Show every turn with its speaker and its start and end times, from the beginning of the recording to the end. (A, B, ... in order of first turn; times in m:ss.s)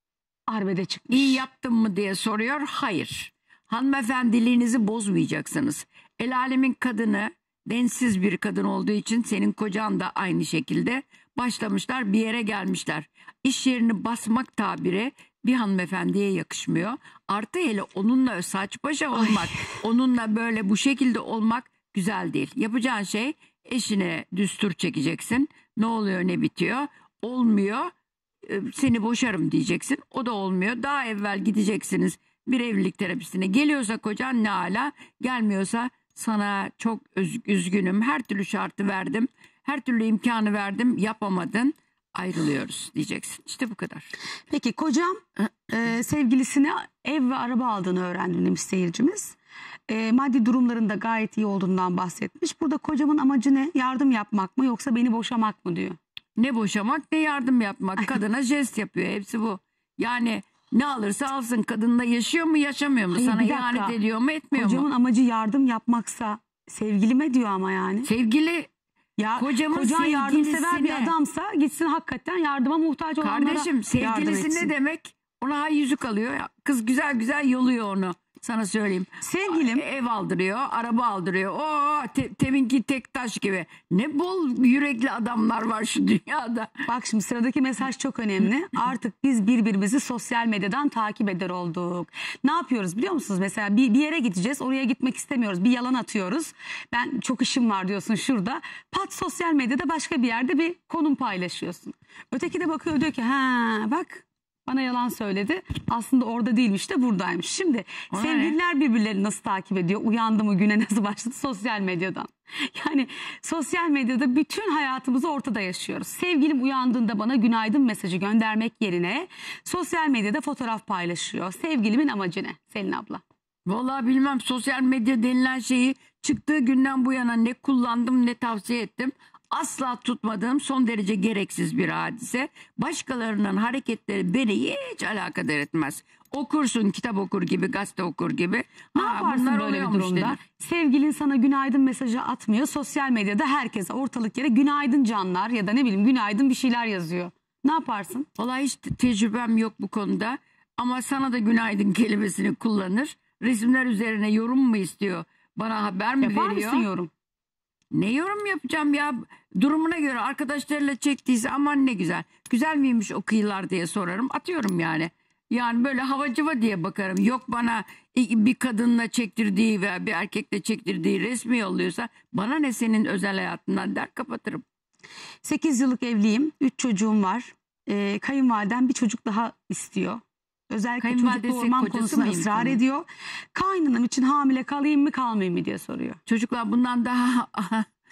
0:00.5-0:01.4 A
0:01.1-0:27.9 B
0:28.4-0:44.1 B
0:44.5-0:49.4 A
0:49.9-0:56.0 A
0:56.4-1:04.9 B
1:03.1-1:04.0 A
1:04.5-1:08.1 A
1:08.0-1:08.7 B
1:09.2-1:14.7 A
1:09.4-1:11.1 B
1:13.2-1:26.7 B
1:19.2-1:19.8 A
1:26.9-2:03.2 A
1:48.1-1:48.6 B
2:03.6-2:20.4 B
2:18.9-2:28.3 A
2:28.4-2:36.9 B
2:36.2-2:37.1 A
2:37.9-2:54.6 B
2:55.4-3:06.2 A
3:01.0-3:02.8 B
3:06.2-3:07.8 B